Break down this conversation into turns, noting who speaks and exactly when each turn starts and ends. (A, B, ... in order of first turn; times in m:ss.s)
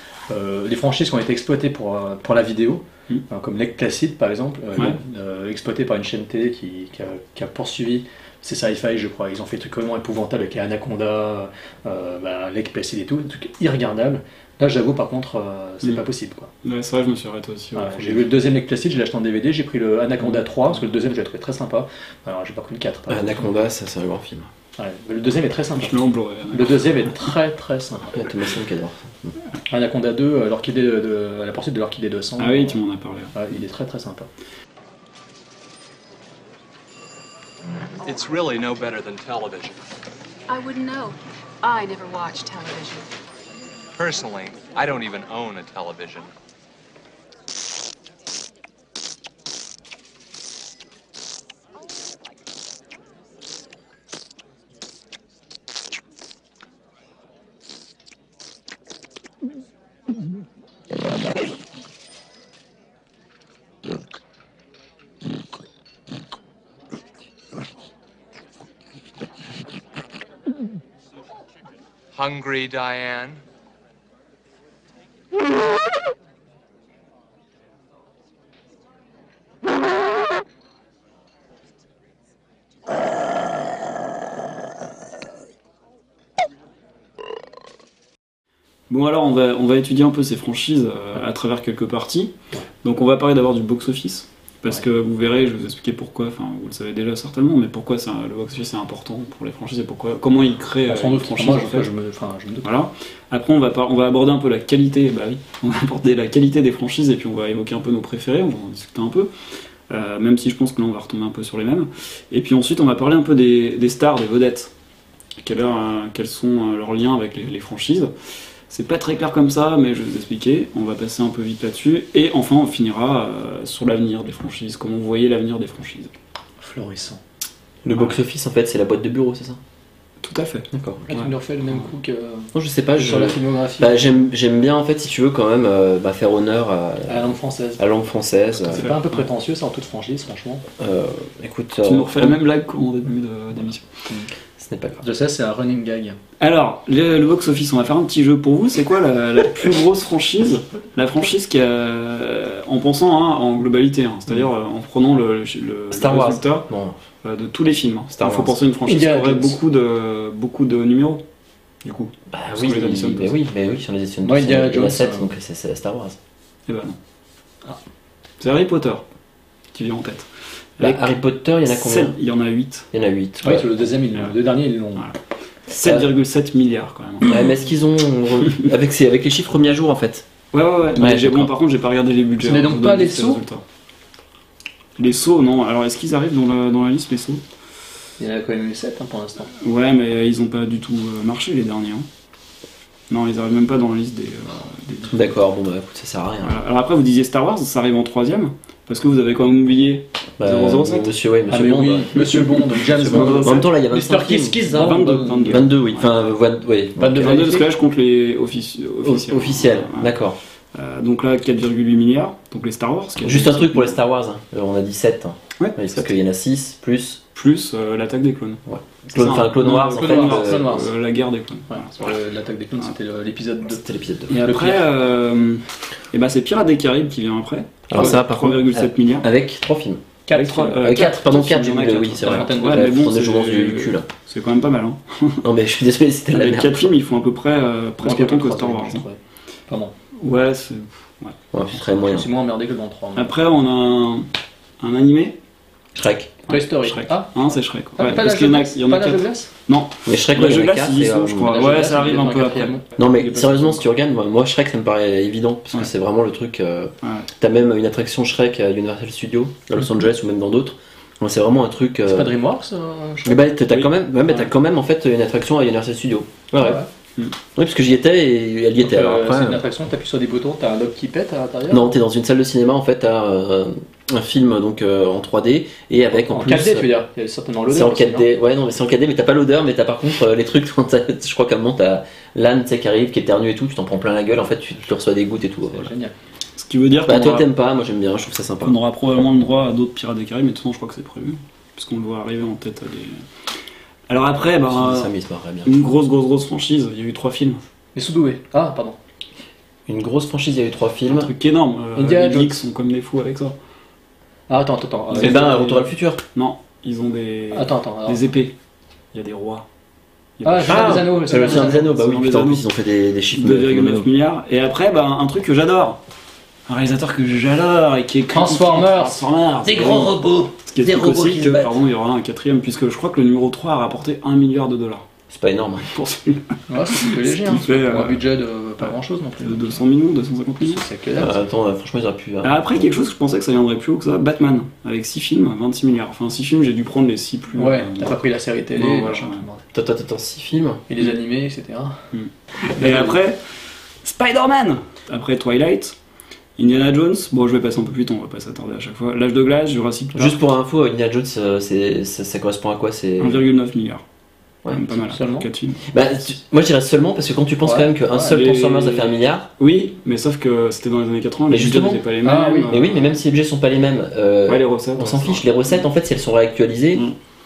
0:00.3-0:16.5 A
0:16.6-0:18.3 B
0:17.7-0:23.5 A
0:23.1-0:24.5 C
0:24.8-0:28.2 A
0:25.8-0:27.1 B
0:28.1-0:29.3 C
0:29.7-0:32.8 A
0:32.4-0:33.3 B
0:33.3-0:34.3 A
0:38.0-0:39.8 D
0:40.5-0:43.1 E
0:44.0-0:46.3 D
1:12.1-1:13.4 D
1:28.9-1:41.9 B
1:40.9-1:42.7 A
1:42.6-1:49.3 B
1:49.9-1:54.7 B
1:55.4-1:58.1 B
1:58.7-2:06.1 B
2:06.6-2:07.2 A
2:07.8-2:09.6 C
2:10.2-2:11.3 B
2:10.7-2:11.1 C
2:11.1-2:14.2 A
2:12.5-2:18.9 C
2:17.1-2:17.8 A
2:18.7-2:20.6 A
2:18.7-2:19.2 B
2:20.8-2:22.4 C
2:21.8-2:23.9 B
2:24.6-2:25.0 C
2:25.0-2:26.2 A
2:26.4-2:36.6 B
2:35.9-2:37.0 C
2:37.2-2:41.2 B
2:38.1-2:38.6 C
2:38.8-2:39.6 A
2:41.8-2:43.4 B
2:42.3-2:46.2 C
2:44.2-2:45.3 A
2:46.7-2:47.0 B
2:48.4-2:49.0 B
2:49.7-2:52.9 B
2:50.8-2:52.1 C
2:52.9-2:53.7 C
2:53.4-2:55.0 A
2:55.7-2:57.4 B
2:55.7-2:56.0 C
2:57.2-3:00.2 C
3:00.5-3:03.6 B
3:01.0-3:01.5 C
3:02.4-3:03.4 A
3:05.0-3:07.4 B
3:08.2-3:09.5 A
3:09.6-3:12.0 B
3:13.1-3:15.3 B
3:15.1-3:16.6 C
3:16.4-3:21.1 B
3:20.4-3:27.4 C
3:21.5-3:25.6 A
3:22.9-3:23.7 B
3:24.7-3:26.1 B
3:27.0-3:27.6 A
3:27.1-3:30.2 B
3:29.0-3:30.4 C
3:30.7-3:34.0 B
3:33.2-3:37.2 C
3:35.6-3:36.1 B
3:37.3-3:38.6 B
3:38.7-3:40.7 C
3:39.1-3:42.2 B
3:39.9-3:40.9 A
3:41.7-3:43.8 A
3:43.7-3:44.5 C
3:44.3-3:49.3 B
3:44.4-3:44.8 A
3:47.9-3:50.0 C
3:50.3-3:51.2 A
3:50.3-3:55.4 B
3:50.8-3:54.1 C
3:52.2-3:53.0 A
3:55.4-3:56.9 C
3:56.3-3:59.0 B
3:58.0-3:59.9 A
4:00.2-4:01.4 B
4:01.5-4:02.3 C
4:02.0-4:03.3 A
4:03.1-4:04.3 B
4:04.8-4:05.4 B
4:05.9-4:06.4 C
4:06.5-4:13.8 B
4:06.5-4:07.3 A
4:08.0-4:09.5 A
4:10.1-4:11.7 C
4:11.5-4:12.8 A
4:13.0-4:22.3 C
4:17.0-4:17.3 B
4:22.1-4:23.5 A
4:23.2-4:26.8 C
4:23.7-4:24.4 B
4:26.6-4:26.9 A
4:27.5-4:29.6 C
4:28.8-4:31.9 A
4:31.7-4:36.9 C
4:36.3-4:38.3 A
4:37.7-4:45.9 C
4:45.7-4:46.1 A
4:46.6-4:47.5 B
4:47.0-4:48.7 C
4:48.6-4:53.2 B
4:54.1-4:55.1 B
4:54.7-4:55.7 C
4:55.6-4:57.6 B
4:57.9-4:59.0 A
4:59.9-5:01.3 C
5:01.1-5:03.5 B
5:02.0-5:02.6 A
5:04.5-5:05.8 A
5:05.2-5:05.6 B
5:05.2-5:06.2 C
5:06.3-5:08.5 B
5:07.5-5:08.2 A
5:09.1-5:09.6 B
5:10.4-5:12.6 B
5:10.4-5:11.8 A
5:10.6-5:14.1 C
5:13.3-5:16.0 B
5:16.7-5:25.0 B
5:18.3-5:19.2 A
5:19.7-5:20.1 A
5:25.3-5:25.9 C
5:25.9-5:28.2 B
5:26.7-5:29.8 A
5:28.8-5:30.8 B
5:30.6-5:31.3 A
5:31.2-5:32.8 C
5:32.4-5:38.1 B
5:37.5-5:39.6 A
5:38.8-5:39.4 B
5:39.7-5:40.8 C
5:40.9-5:42.0 A
5:42.1-5:43.4 B
5:42.8-5:43.2 A
5:44.0-5:45.9 B
5:46.6-5:50.4 B
5:50.1-5:53.4 C
5:53.2-5:54.0 B
5:54.7-5:55.8 B
5:54.9-5:55.4 A
5:55.9-5:59.5 C
5:57.6-5:58.3 A
5:58.2-6:03.0 B
6:01.5-6:02.0 C
6:02.2-6:02.7 A
6:02.7-6:07.0 C
6:04.5-6:05.8 B